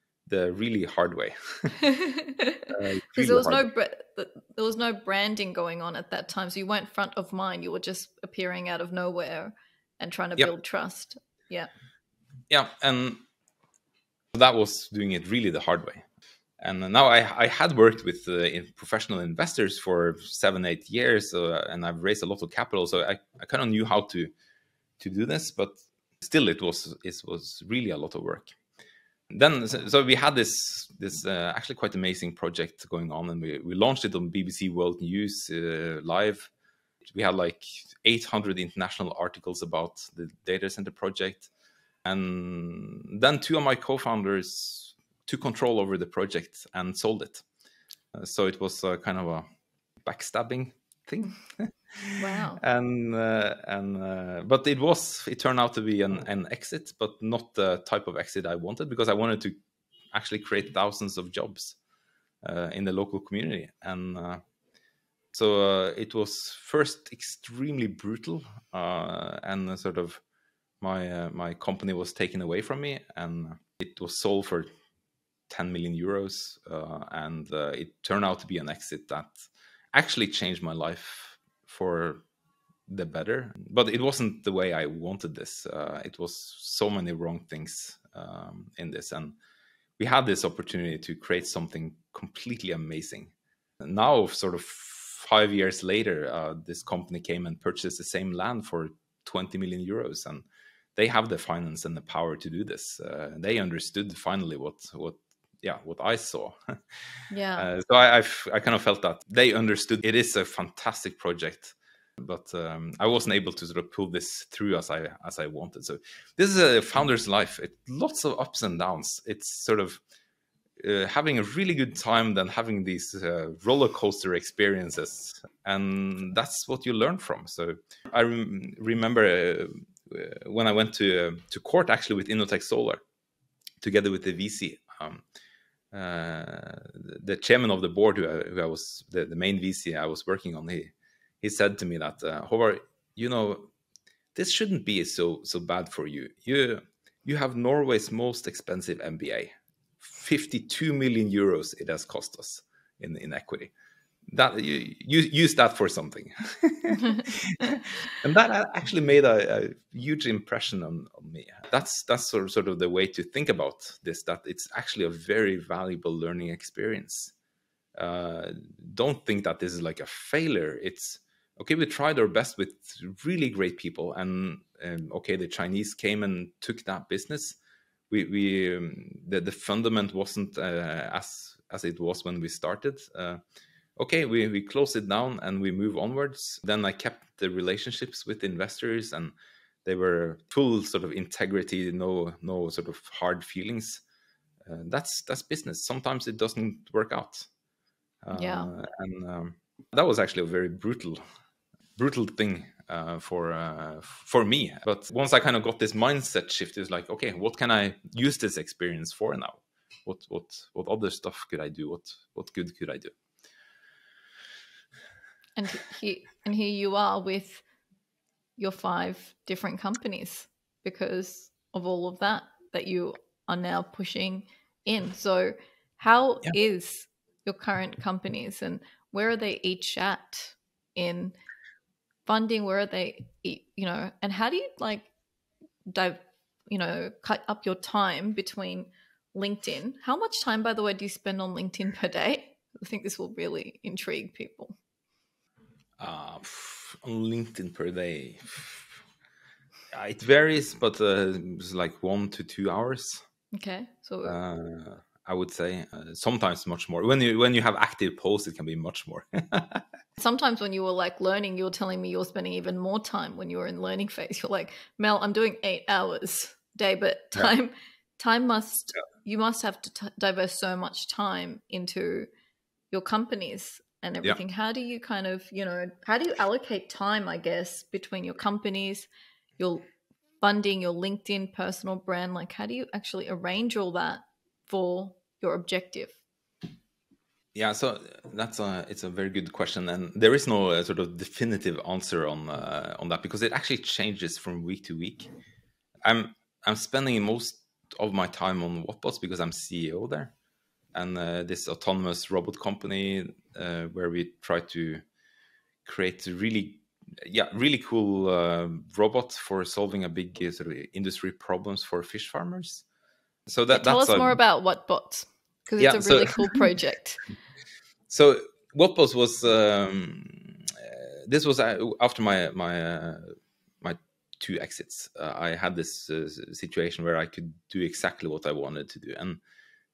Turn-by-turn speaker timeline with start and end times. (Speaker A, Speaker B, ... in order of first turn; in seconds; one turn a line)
Speaker A: 0.3-1.8
Speaker B: 1.8-11.7
Speaker A: 2.7-3.7
Speaker A: 12.5-13.2
Speaker A: 14.3-16.1
Speaker A: 16.6-24.3
Speaker A: 25.0-28.6
Speaker A: 29.3-36.5
Speaker A: 37.0-41.5
Speaker A: 42.0-47.4
Speaker A: 48.1-49.5
Speaker A: 50.0-59.6
Speaker B: 52.1-52.6
Speaker A: 60.1-61.8
Speaker A: 62.4-64.4
Speaker A: 65.3-70.2
Speaker A: 70.8-74.7
Speaker A: 75.5-82.2
Speaker A: 82.9-89.4
Speaker A: 90.0-100.5
Speaker A: 101.0-106.8
Speaker B: 107.3-107.7
Speaker A: 107.6-120.0
Speaker A: 120.8-133.0
Speaker A: 133.8-135.2
Speaker A: 135.9-143.7
Speaker A: 144.3-153.7
Speaker A: 154.3-167.3
Speaker B: 157.0-157.2
Speaker A: 168.0-177.6
Speaker A: 178.1-183.4
Speaker A: 184.0-189.3
Speaker A: 189.8-194.0
Speaker A: 194.7-197.5
Speaker A: 198.2-201.2
Speaker B: 198.3-198.7
Speaker A: 202.0-213.1
Speaker B: 215.6-217.6
Speaker B: 218.6-231.3
Speaker B: 232.3-235.1
Speaker B: 235.9-244.8
Speaker A: 246.0-249.0
Speaker A: 249.9-253.2
Speaker B: 253.5-254.4
Speaker A: 254.2-259.9
Speaker B: 260.2-272.3
Speaker B: 272.9-279.1
Speaker B: 279.6-279.9
Speaker B: 280.4-286.2
Speaker A: 287.6-295.3
Speaker A: 296.0-300.3
Speaker A: 300.9-305.0
Speaker A: 305.9-312.9
Speaker A: 313.5-314.4
Speaker B: 313.7-317.2
Speaker A: 315.8-316.6
Speaker A: 318.1-329.4